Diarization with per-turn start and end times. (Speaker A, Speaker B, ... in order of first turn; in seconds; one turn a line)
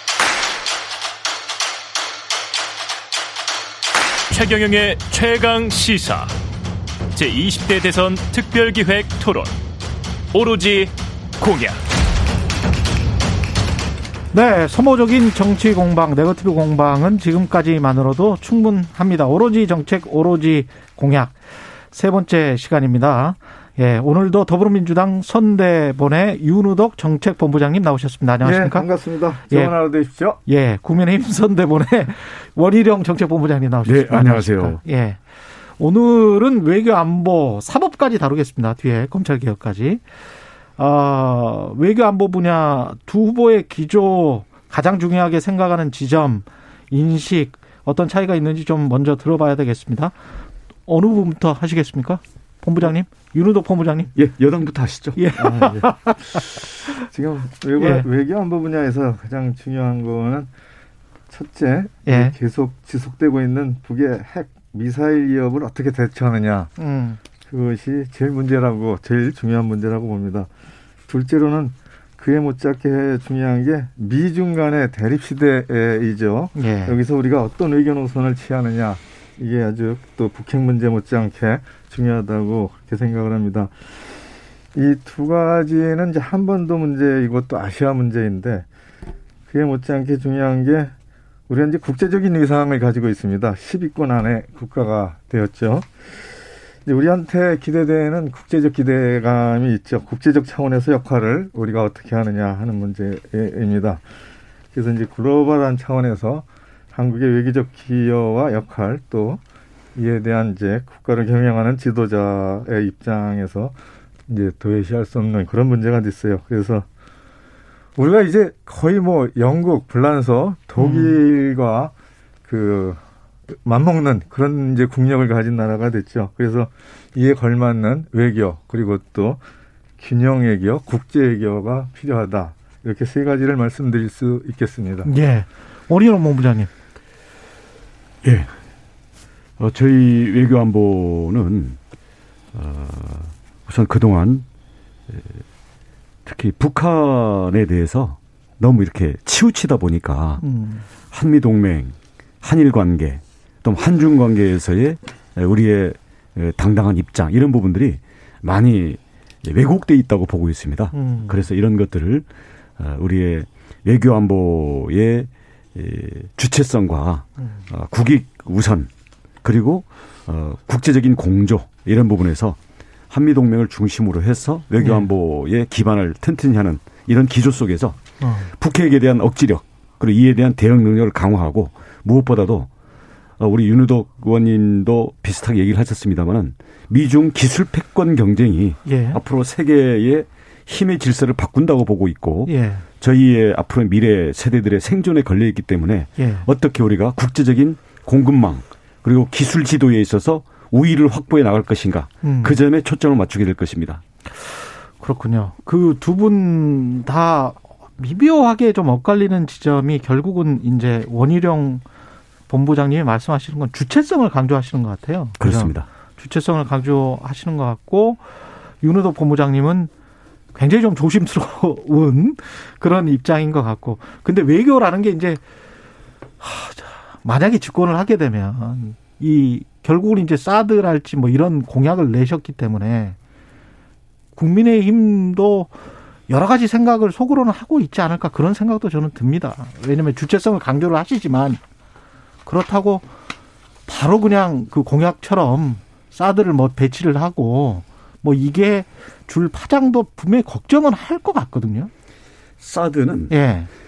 Speaker A: 4.3-6.3
Speaker A: 7.1-9.5
Speaker A: 10.3-11.8
Speaker B: 14.3-21.4
Speaker B: 21.9-28.9
Speaker C: 28.4-30.4
Speaker B: 30.4-35.2
Speaker D: 33.9-34.8
Speaker B: 35.8-40.0
Speaker B: 40.8-50.1
Speaker B: 50.9-54.1
Speaker D: 54.1-55.2
Speaker B: 55.2-57.0
Speaker C: 55.4-55.9
Speaker C: 57.0-60.5
Speaker B: 57.8-58.0
Speaker C: 61.3-66.7
Speaker B: 62.1-62.3
Speaker B: 66.8-67.2
Speaker C: 67.5-70.5
Speaker C: 71.1-83.7
Speaker B: 76.5-77.0
Speaker C: 84.7-88.7
Speaker C: 89.5-90.9
Speaker C: 91.5-95.9
Speaker C: 96.8-104.0
Speaker C: 104.7-109.4
Speaker C: 109.9-113.7
Speaker C: 114.3-116.8
Speaker C: 118.0-121.9
Speaker B: 120.8-121.2
Speaker C: 122.4-123.0
Speaker C: 123.6-129.4
Speaker C: 130.0-135.1
Speaker B: 135.0-136.7
Speaker D: 139.6-141.8
Speaker D: 142.5-144.4
Speaker D: 146.2-150.4
Speaker B: 150.4-150.8
Speaker D: 151.1-162.2
Speaker B: 160.9-161.3
Speaker D: 162.8-168.9
Speaker D: 169.4-172.6
Speaker D: 173.1-178.0
Speaker B: 174.8-175.1
Speaker B: 178.2-178.5
Speaker D: 178.6-182.7
Speaker D: 183.4-204.0
Speaker B: 188.8-189.2
Speaker B: 192.5-192.8
Speaker B: 196.2-196.5
Speaker B: 202.2-202.6
Speaker B: 205.0-211.8
Speaker B: 212.5-218.2
Speaker D: 215.4-215.8
Speaker B: 218.8-219.9
Speaker B: 220.5-225.4
Speaker B: 226.4-233.2
Speaker B: 234.3-235.7
Speaker B: 236.3-241.6
Speaker B: 242.4-243.1
Speaker B: 243.9-251.9
Speaker D: 252.6-253.3
Speaker B: 253.3-253.7